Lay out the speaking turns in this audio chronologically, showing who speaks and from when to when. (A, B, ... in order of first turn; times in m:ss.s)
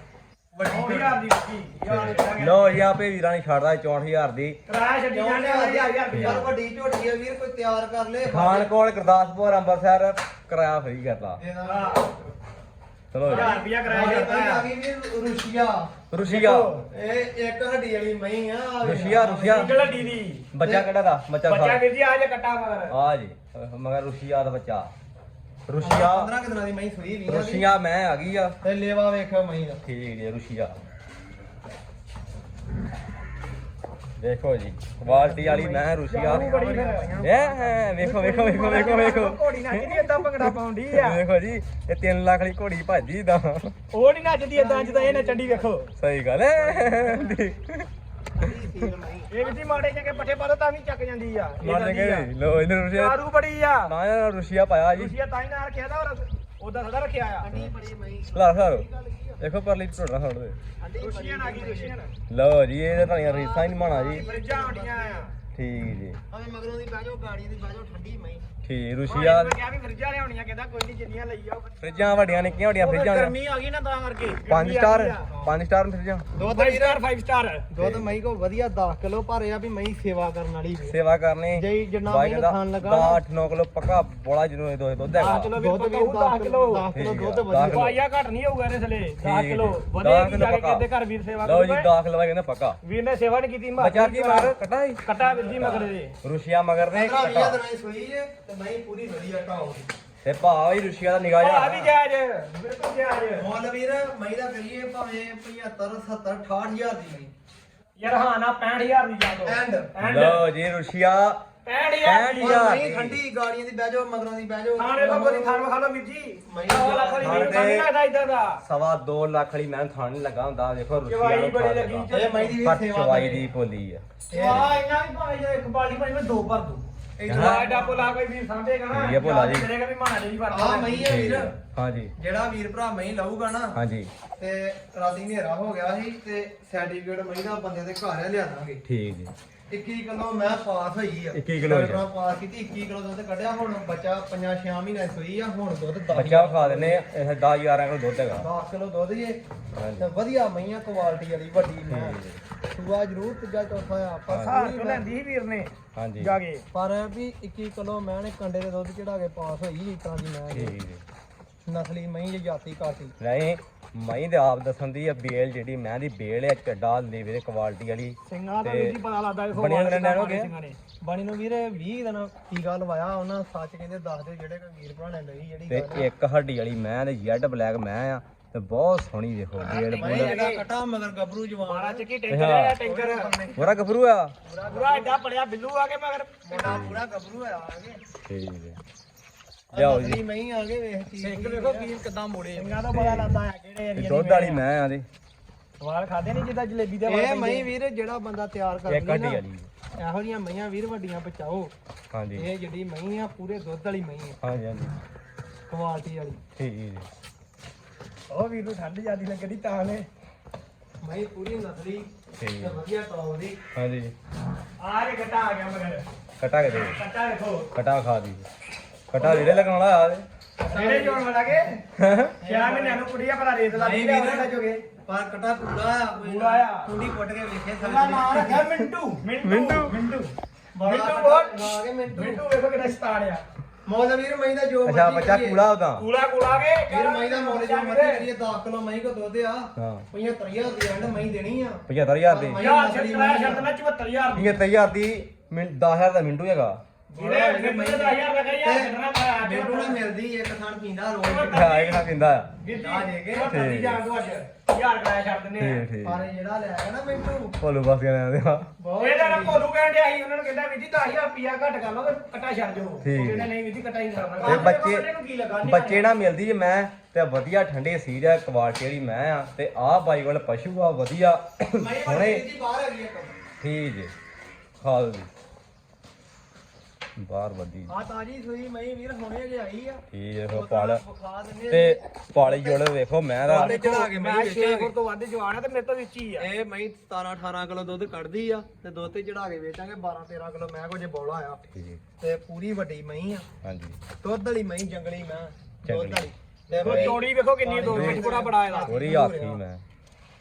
0:00.5-0:01.2 A
0:00.6-0:02.9 B
0:01.8-0:04.6 C
0:04.7-0:06.4 B
0:05.1-0:08.7 A
0:06.1-0:06.5 C
0:08.2-0:11.4 C
0:11.4-0:12.3 A
0:11.6-0:12.0 B
0:13.1-0:13.5 C
0:13.2-0:14.6 B
0:13.2-0:16.0 A
0:16.1-0:16.7 C
0:16.2-0:16.8 B
0:16.8-0:20.9 A
0:18.8-0:19.7 C
0:19.5-0:20.5 B
0:20.5-0:21.8 C
0:21.5-0:23.0 B
0:22.9-0:24.9 C
0:25.7-0:26.3 C
0:25.8-0:27.6 A
0:27.3-0:28.6 C
0:28.6-0:29.8 A
0:29.8-0:30.8 C
0:34.2-0:36.5 C
0:35.1-0:38.0 A
0:36.1-0:37.1 B
0:37.2-0:43.7 C
0:38.0-0:41.2 B
0:43.9-0:45.9 B
0:44.5-0:45.7 A
0:46.0-0:47.9 C
0:46.6-0:47.4 A
0:48.3-0:49.8 A
0:49.3-0:52.3 B
0:51.6-0:53.2 C
0:52.9-0:53.9 B
0:53.8-0:55.1 C
0:54.9-0:57.5 B
0:57.4-0:59.4 A
0:58.3-0:58.9 C
0:59.4-1:00.6 C
1:00.8-1:02.0 A
1:01.0-1:02.1 B
1:02.3-1:04.3 C
1:03.2-1:05.3 A
1:04.1-1:05.3 B
1:05.5-1:06.2 C
1:06.3-1:08.4 A
1:08.6-1:09.6 C
1:09.1-1:15.4 B
1:11.8-1:13.4 C
1:14.5-1:16.3 C
1:16.3-1:17.0 A
1:16.4-1:17.7 B
1:17.7-1:21.0 A
1:17.8-1:18.2 C
1:20.8-1:25.5 C
1:21.5-1:23.2 A
1:25.1-1:26.8 B
1:25.3-1:27.9 A
1:26.9-1:28.0 C
1:27.6-1:31.9 B
1:29.2-1:30.9 C
1:31.4-1:32.8 C
1:32.8-1:36.1 B
1:33.8-1:37.6 C
1:35.2-1:35.7 A
1:36.9-1:39.9 A
1:40.2-1:42.0 C
1:41.4-1:43.4 B
1:43.3-1:47.3 A
1:48.0-1:50.4 B
1:49.4-1:50.0 A
1:50.0-1:51.4 C
1:51.6-1:52.7 B
1:52.0-1:53.2 C
1:52.4-1:55.6 A
1:54.7-1:58.6 B
1:56.4-1:57.7 A
1:57.2-1:57.9 C
1:58.6-2:04.0 C
2:01.0-2:02.6 B
2:02.1-2:03.4 A
2:04.3-2:11.1 B
2:04.3-2:04.7 A
2:07.2-2:08.2 A
2:07.3-2:07.7 C
2:08.9-2:09.7 C
2:10.5-2:11.6 A
2:11.0-2:12.1 C
2:12.2-2:13.8 A
2:13.7-2:14.1 C
2:14.4-2:18.8 A
2:18.8-2:19.3 C
2:19.7-2:27.0 A
2:21.3-2:22.0 C
2:26.1-2:28.5 C
2:28.4-2:29.4 A
2:29.7-2:30.1 C
2:30.0-2:35.1 A
2:31.9-2:32.4 C
2:34.3-2:36.6 B
2:35.9-2:36.4 C
2:36.7-2:40.8 A
2:40.5-2:41.0 C
2:41.6-2:43.1 A
2:43.2-2:49.0 C
2:48.3-2:50.8 B
2:49.5-2:50.5 C
2:51.0-2:56.0 A
2:55.7-3:00.4 C
2:59.6-3:00.6 B
2:59.6-3:02.1 A
3:01.6-3:03.3 B
3:02.3-3:02.8 C
3:02.8-3:03.8 A
3:03.6-3:04.3 C
3:04.4-3:05.2 A
3:04.7-3:06.8 B
3:06.4-3:08.0 A
3:06.6-3:07.0 C
3:08.3-3:08.8 C
3:09.7-3:13.1 A
3:09.7-3:10.2 C
3:11.2-3:11.9 B
3:12.5-3:14.6 B
3:13.0-3:13.3 C
3:13.9-3:15.1 C
3:15.8-3:17.7 B
3:17.0-3:19.4 A
3:18.9-3:19.7 C
3:20.0-3:21.7 A
3:22.1-3:22.5 C
3:22.3-3:24.4 A
3:24.4-3:25.0 C
3:25.7-3:26.4 A
3:26.6-3:27.1 C
3:28.3-3:30.1 B
3:31.0-3:33.6 A
3:32.4-3:32.8 C
3:33.7-3:34.1 C
3:34.8-3:36.0 B
3:36.4-3:37.0 C
3:36.9-3:37.7 B
3:37.7-3:38.4 C
3:39.1-3:40.2 C
3:39.2-3:39.6 B
3:40.6-3:41.8 B
3:40.7-3:41.5 A
3:42.0-3:42.4 C
3:42.4-3:43.0 A
3:42.4-3:44.8 B
3:43.7-3:44.5 A
3:45.0-3:48.7 A
3:46.2-3:46.9 B
3:47.8-3:50.3 B
3:49.4-3:50.0 C
3:50.7-3:52.4 A
3:50.8-3:53.4 B
3:53.8-3:55.6 A
3:54.8-3:56.1 C
3:56.0-3:58.2 B
3:56.9-4:03.7 A
3:59.8-4:00.1 C
4:01.9-4:02.6 C
4:02.6-4:04.6 B
4:04.3-4:06.8 C
4:07.1-4:11.8 A
4:07.1-4:10.0 B
4:11.2-4:12.1 B
4:11.5-4:12.6 C
4:12.6-4:15.8 B
4:12.6-4:13.5 A
4:13.5-4:14.0 C
4:15.6-4:16.3 C
4:16.0-4:17.6 A
4:17.6-4:18.7 C
4:18.8-4:19.6 A
4:19.0-4:26.1 B
4:23.0-4:23.5 C
4:24.4-4:24.7 A
4:24.4-4:25.1 C
4:25.6-4:32.4 C
4:31.7-4:33.4 A
4:33.6-4:34.1 C
4:34.8-4:35.3 C
4:37.2-4:37.9 C
4:37.9-4:42.8 A
4:40.1-4:41.0 C
4:41.7-4:43.7 C
4:43.4-4:44.9 A
4:43.4-4:46.5 B
4:46.4-4:51.6 A
4:51.7-4:52.0 C
4:52.2-4:53.4 A
4:53.6-4:54.0 C
4:54.2-4:59.6 A
4:55.8-4:56.3 C
4:56.8-4:57.2 C
4:56.8-4:59.0 B
4:57.8-4:58.3 C
4:58.9-4:59.8 C